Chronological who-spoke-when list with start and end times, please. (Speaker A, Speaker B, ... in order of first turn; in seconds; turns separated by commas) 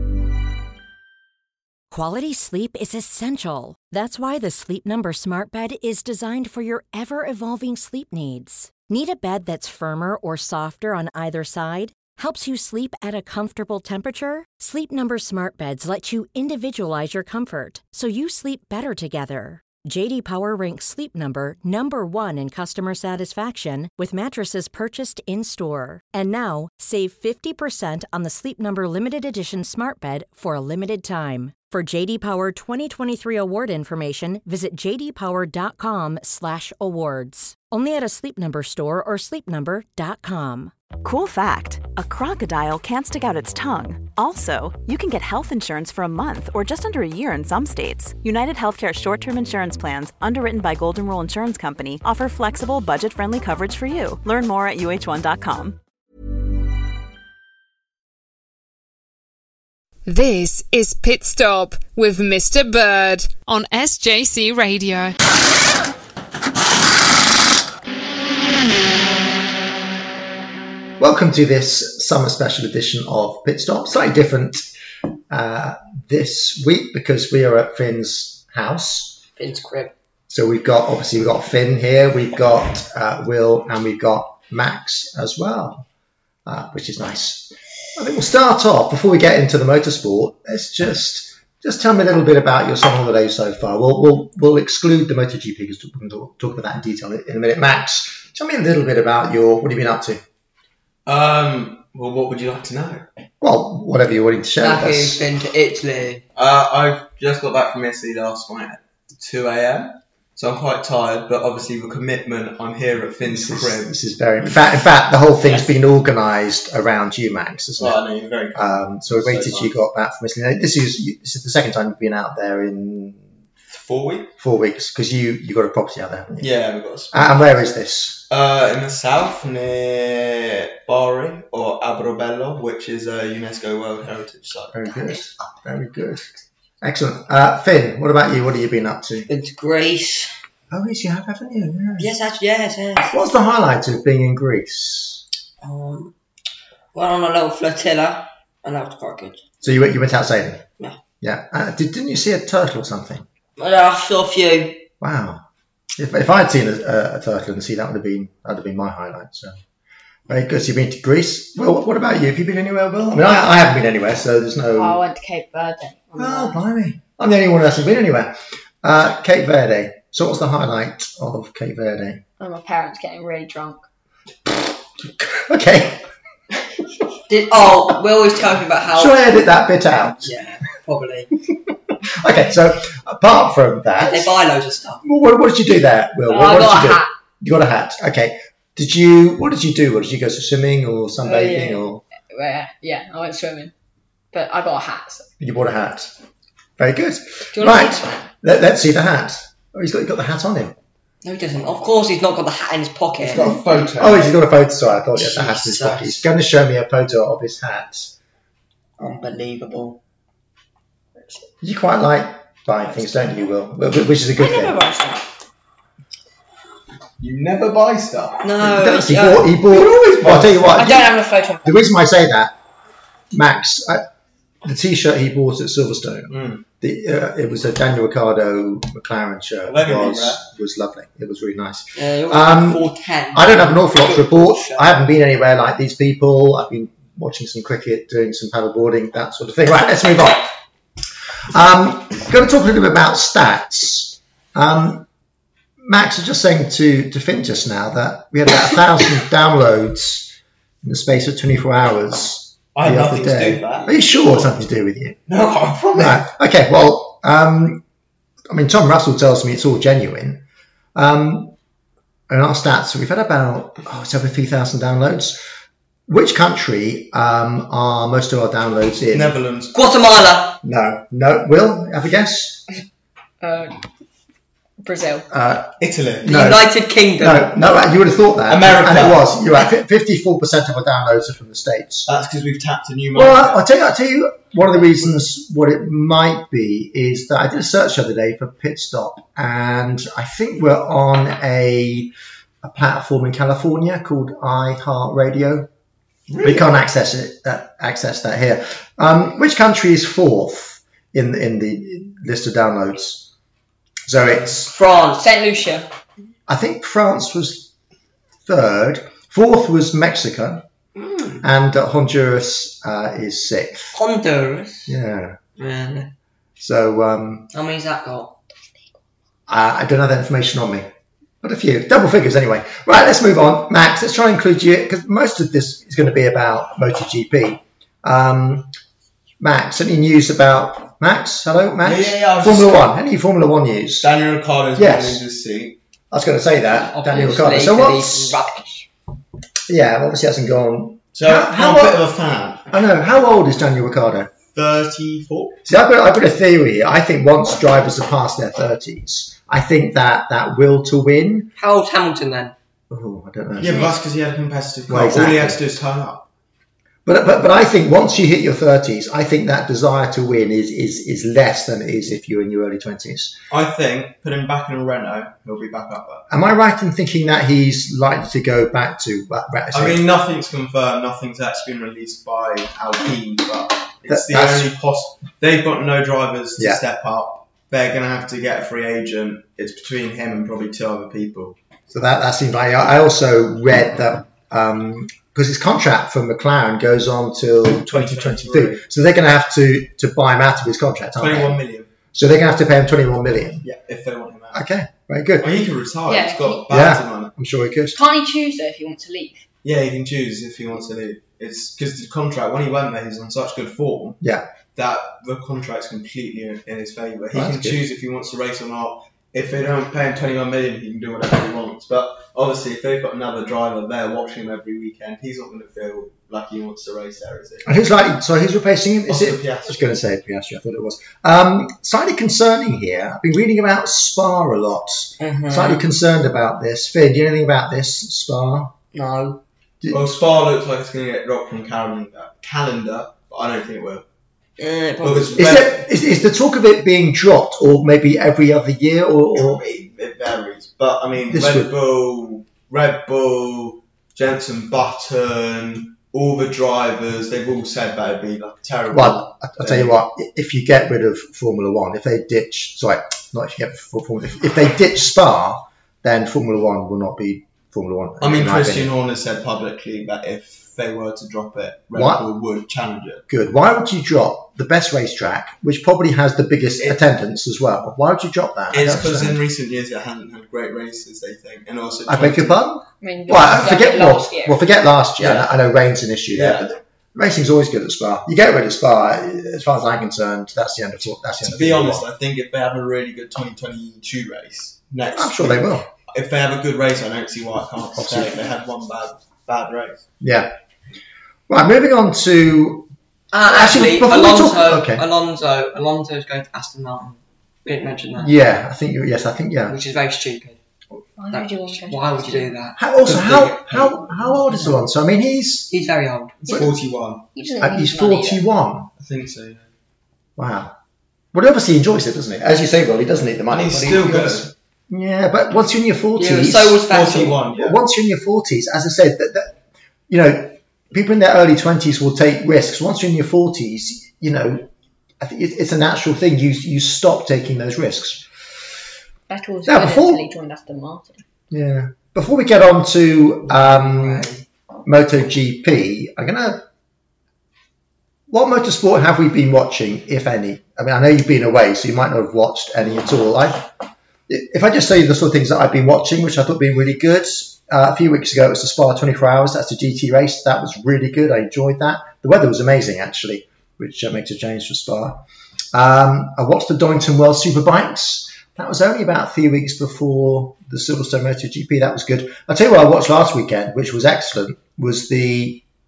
Speaker A: 1.9-40.7, Speaker B: 41.0-55.8, Speaker C: 60.1-65.2, Speaker D: 71.0-74.7, Speaker D: 75.3-79.2, Speaker E: 79.4-79.9, Speaker D: 80.3-85.9, Speaker D: 86.5-100.2, Speaker F: 101.1-103.1, Speaker D: 103.4-105.2, Speaker E: 104.6-106.2, Speaker F: 106.4-113.9, Speaker D: 113.2-118.0, Speaker F: 115.4-115.7, Speaker F: 117.8-119.8, Speaker D: 118.5-123.2, Speaker F: 123.7-124.3, Speaker D: 124.4-126.5, Speaker F: 126.4-127.2, Speaker D: 127.1-128.2, Speaker F: 128.3-134.9, Speaker D: 134.7-136.3, Speaker D: 136.8-139.3, Speaker E: 139.3-140.3, Speaker D: 140.7-142.1, Speaker E: 142.0-143.2, Speaker D: 143.1-145.2, Speaker E: 145.6-146.1, Speaker E: 146.9-149.5, Speaker D: 149.6-150.6, Speaker D: 151.2-153.3, Speaker E: 153.6-154.9, Speaker D: 155.0-155.4, Speaker D: 156.0-159.6, Speaker D: 160.3-165.0, Speaker G: 164.7-166.6, Speaker D: 166.2-172.2, Speaker G: 172.4-173.8, Speaker D: 175.0-176.0, Speaker E: 177.3-179.2, Speaker D: 178.9-180.3, Speaker E: 180.0-181.3, Speaker D: 182.2-184.3, Speaker E: 184.0-185.0, Speaker D: 185.0-192.0, Speaker G: 186.3-187.1, Speaker G: 191.2-193.7, Speaker G: 194.3-195.3, Speaker D: 195.4-196.1, Speaker D: 196.8-200.8, Speaker G: 197.6-198.2, Speaker E: 201.2-203.6, Speaker F: 203.2-204.4, Speaker D: 204.0-208.1, Speaker E: 205.2-206.3, Speaker E: 209.0-210.0, Speaker D: 211.6-214.8, Speaker G: 214.4-215.2, Speaker F: 217.2-218.5, Speaker E: 218.4-219.6, Speaker D: 218.6-222.6, Speaker F: 219.8-220.7, Speaker E: 220.7-221.7, Speaker D: 223.3-224.0, Speaker D: 224.6-240.5, Speaker F: 226.3-226.7, Speaker F: 229.7-230.4, Speaker E: 231.9-234.9, Speaker D: 241.5-245.1, Speaker D: 245.8-250.3, Speaker D: 250.8-255.2, Speaker F: 252.8-254.2, Speaker F: 255.3-256.2, Speaker D: 255.9-257.8, Speaker D: 258.5-260.4, Speaker D: 260.9-261.6, Speaker D: 262.3-265.4, Speaker D: 266.1-269.4, Speaker F: 269.1-269.7, Speaker E: 269.7-270.6, Speaker D: 270.6-272.7, Speaker G: 273.4-273.8, Speaker G: 274.8-275.3, Speaker D: 275.3-276.7, Speaker F: 275.8-276.4, Speaker E: 276.2-277.5, Speaker D: 277.2-282.1, Speaker F: 278.5-279.2, Speaker F: 282.1-283.6, Speaker D: 283.1-295.7, Speaker F: 296.3-296.6, Speaker D: 296.4-303.3, Speaker D: 304.1-304.7, Speaker E: 304.7-305.3, Speaker G: 305.1-305.9, Speaker D: 306.5-307.7, Speaker D: 308.5-310.6, Speaker E: 311.0-311.4, Speaker D: 311.4-314.0, Speaker E: 313.9-314.9, Speaker D: 314.9-315.4, Speaker E: 315.6-316.1, Speaker D: 316.6-317.5, Speaker E: 317.5-318.4, Speaker D: 319.5-320.9, Speaker D: 321.4-328.7, Speaker D: 329.4-334.1, Speaker F: 331.8-332.9, Speaker F: 334.0-335.8, Speaker D: 334.8-335.2, Speaker D: 336.1-338.4, Speaker E: 336.7-338.9, Speaker D: 339.7-342.1, Speaker F: 341.1-342.7, Speaker D: 342.7-344.3, Speaker F: 344.5-345.7, Speaker D: 345.7-351.5, Speaker E: 351.6-352.5, Speaker D: 352.9-353.9, Speaker F: 353.6-356.3, Speaker D: 354.9-355.6, Speaker D: 357.1-363.4, Speaker F: 363.5-366.3, Speaker D: 366.3-370.0, Speaker F: 369.7-381.6, Speaker D: 374.1-374.7, Speaker D: 381.9-391.6, Speaker F: 387.9-388.8, Speaker F: 391.2-391.9, Speaker D: 392.1-393.7, Speaker F: 393.6-394.6, Speaker D: 394.5-395.5, Speaker F: 395.4-397.3, Speaker G: 396.1-396.7, Speaker D: 396.7-398.0, Speaker G: 397.9-399.4, Speaker F: 399.6-404.2, Speaker D: 404.2-404.5, Speaker F: 404.8-417.8, Speaker D: 407.3-407.8, Speaker D: 417.7-428.7, Speaker F: 419.1-419.8, Speaker E: 425.2-425.9, Speaker E: 428.9-429.4, Speaker D: 429.8-430.2, Speaker F: 429.9-434.1, Speaker E: 434.6-435.5, Speaker F: 435.0-435.8, Speaker D: 435.4-439.6, Speaker F: 439.4-449.9, Speaker D: 441.3-441.7, Speaker D: 448.9-458.9, Speaker F: 458.2-463.2, Speaker D: 462.0-462.2, Speaker D: 463.3-469.4, Speaker F: 468.7-472.6, Speaker D: 472.1-482.1, Speaker G: 473.0-474.6, Speaker F: 475.2-475.5, Speaker F: 476.3-476.7, Speaker F: 481.5-490.0, Speaker D: 485.1-485.9, Speaker D: 488.0-488.5, Speaker D: 490.2-490.5, Speaker D: 491.5-492.9, Speaker E: 493.3-498.3, Speaker D: 493.4-495.1, Speaker D: 498.2-499.8, Speaker E: 499.7-500.6, Speaker G: 501.2-502.6, Speaker E: 501.3-502.8, Speaker D: 502.8-505.7, Speaker F: 503.1-503.9, Speaker E: 504.3-504.8, Speaker E: 505.7-506.6, Speaker F: 506.5-507.3, Speaker G: 507.4-508.4, Speaker D: 507.6-508.9, Speaker F: 509.0-509.7, Speaker D: 510.4-510.8, Speaker D: 511.3-516.8, Speaker F: 513.5-514.5, Speaker E: 516.2-517.4, Speaker F: 516.9-517.8, Speaker D: 517.5-519.6, Speaker D: 520.1-524.7, Speaker D: 525.2-528.3, Speaker G: 529.3-531.2, Speaker D: 529.6-530.3, Speaker D: 531.5-534.3, Speaker E: 533.6-534.3, Speaker D: 534.9-536.6, Speaker D: 538.3-543.7, Speaker D: 544.3-565.6